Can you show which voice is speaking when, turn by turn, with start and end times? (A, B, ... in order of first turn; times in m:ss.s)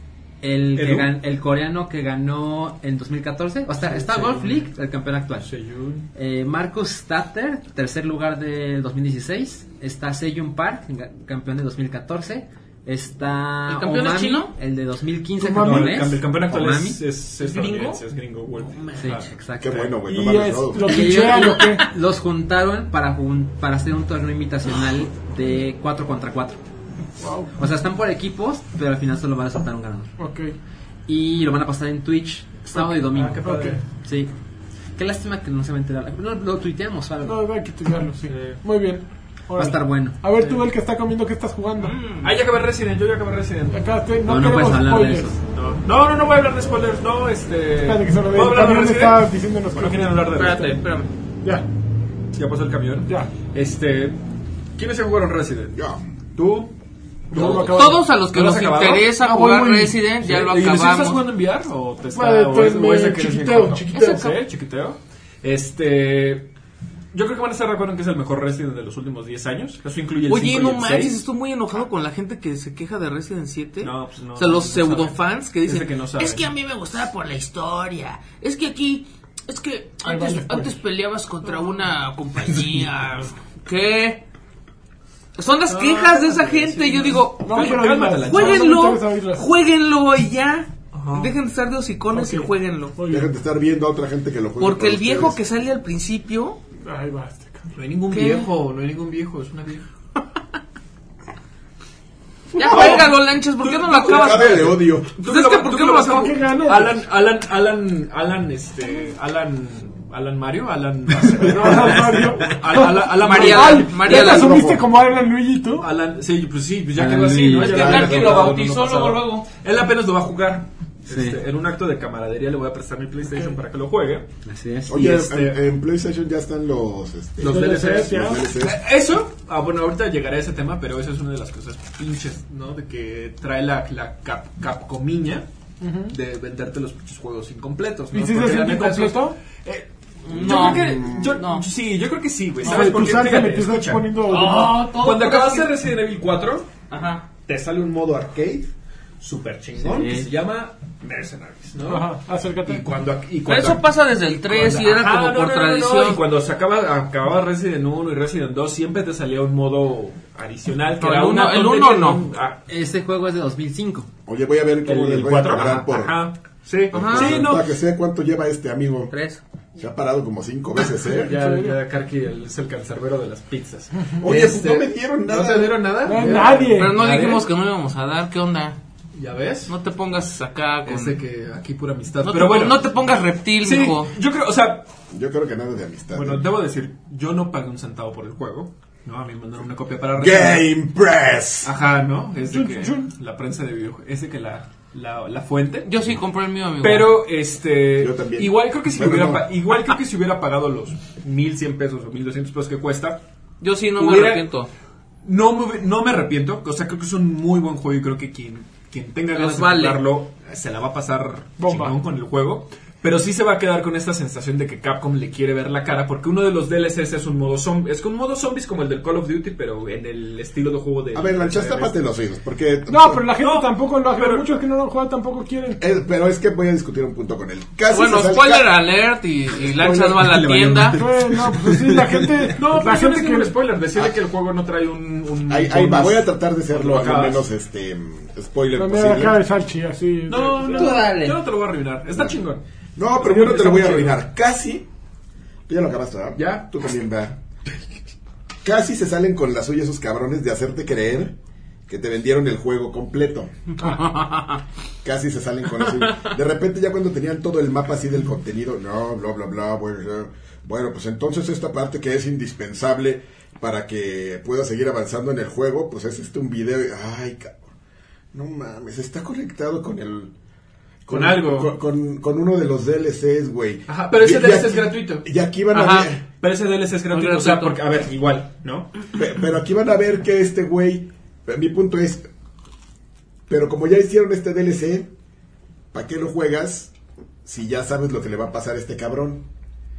0:00.4-0:05.5 A
0:00.8-0:01.1 B
0:03.8-0:04.6 B
0:05.4-0:06.1 B
0:06.2-0:17.0 A
0:13.7-0:14.5 C
0:15.4-0:16.0 D
0:15.5-0:19.3 B
0:17.4-0:18.0 C
0:18.6-0:19.1 C
0:19.0-0:19.9 A
0:19.6-0:21.1 E
0:20.1-0:21.9 D
0:20.8-0:26.6 A
0:27.2-0:27.5 D
0:27.6-0:30.1 A
0:30.2-0:30.6 D
0:31.1-0:34.3 A
0:32.7-0:33.8 B
0:33.4-0:33.8 D
0:35.0-0:37.4 A
0:37.2-0:42.0 D
0:38.3-0:38.6 B
0:39.6-0:40.2 A
0:40.4-0:40.6 B
0:41.8-0:42.3 C
0:42.2-0:43.8 B
0:43.7-0:45.4 D
0:44.2-0:45.4 A
0:45.5-0:50.7 B
0:47.8-0:50.8 D
0:50.4-0:51.1 C
0:52.4-0:54.2 B
0:53.1-0:53.3 D
0:54.8-0:55.8 B
0:55.7-0:56.0 E
0:56.4-0:56.7 B
0:57.3-0:58.1 D
0:57.3-1:06.5 B
0:57.4-1:01.3 C
0:59.2-1:00.0 D
1:02.1-1:04.4 D
1:03.9-1:04.2 C
1:07.1-1:11.2 B
1:10.3-1:24.2 C
1:13.8-1:16.5 B
1:20.0-1:20.8 D
1:25.4-1:33.0 C
1:25.7-1:29.4 D
1:27.5-1:28.7 B
1:30.9-1:31.3 B
1:32.1-1:33.3 D
1:33.1-1:35.4 E
1:34.6-1:36.6 C
1:36.8-1:37.7 D
1:37.7-1:39.8 B
1:38.1-1:38.5 C
1:42.5-1:46.3 C
1:42.6-1:54.6 B
1:42.7-1:43.0 E
1:44.0-1:45.1 E
1:46.1-1:47.0 D
1:51.4-1:55.9 D
1:52.9-1:54.6 C
1:54.1-1:54.9 E
1:55.8-2:04.3 B
1:57.0-1:57.9 A
1:57.5-1:59.5 C
1:57.8-1:58.2 E
2:01.1-2:01.4 A
2:04.4-2:05.1 A
2:04.9-2:08.8 E
2:05.0-2:05.5 B
2:07.4-2:15.5 B
2:07.4-2:08.5 D
2:15.8-2:16.1 D
2:16.1-2:26.7 B
2:18.1-2:19.4 D
2:20.3-2:21.7 C
2:20.6-2:21.3 E
2:22.6-2:24.7 D
2:24.2-2:25.8 C
2:26.9-2:27.3 C
2:27.4-2:42.6 B
2:29.8-2:30.3 A
2:31.8-2:32.8 D
2:33.5-2:36.2 C
2:41.0-2:42.2 C
2:42.7-2:44.1 A
2:44.3-2:46.2 E
2:44.8-2:47.7 B
2:46.9-2:47.4 C
2:46.9-2:49.1 E
2:49.1-2:49.4 C
2:49.8-2:51.3 E
2:51.1-2:57.5 B
2:51.2-2:51.8 D
2:54.0-2:54.2 D
2:54.2-2:55.9 E
2:56.0-2:57.0 D
2:56.6-2:58.8 C
2:59.2-2:59.7 B
2:59.7-3:01.2 C
3:00.8-3:02.9 B
3:02.2-3:04.1 C
3:03.6-3:04.9 B
3:05.1-3:06.5 E
3:06.1-3:10.7 B
3:10.2-3:11.7 E
3:11.6-3:15.9 B
3:12.5-3:13.1 D
3:15.8-3:17.2 C
3:16.8-3:23.2 B
3:18.0-3:19.5 E
3:23.6-3:24.7 C
3:24.0-3:24.5 B
3:25.2-3:42.0 B
3:29.3-3:30.0 C
3:31.6-3:32.0 D
3:41.1-3:43.2 E
3:42.9-3:45.8 D
3:43.4-3:44.5 B
3:45.8-3:48.7 E
3:47.9-3:51.0 C
3:49.8-3:51.1 A
3:50.4-3:51.0 B
3:50.9-3:53.5 D
3:51.6-3:52.3 A
3:52.5-3:57.5 B
3:55.5-3:59.4 E
3:58.8-4:01.0 D
4:00.3-4:02.6 B
4:00.7-4:01.4 A
4:03.0-4:04.9 E
4:03.2-4:04.2 B
4:03.2-4:04.1 D
4:05.7-4:07.4 E
4:06.4-4:06.7 B
4:08.6-4:11.4 E
4:11.9-4:13.5 E
4:14.0-4:14.6 C
4:15.0-4:27.6 E
4:28.3-4:30.3 E
4:31.1-4:31.7 B
4:31.1-4:36.2 E
4:33.9-4:35.3 B
4:35.7-4:36.1 C
4:36.4-4:38.9 B
4:37.1-4:37.8 C
4:39.2-4:42.3 E
4:43.5-4:45.1 E
4:45.9-4:46.9 E
4:47.4-4:49.5 E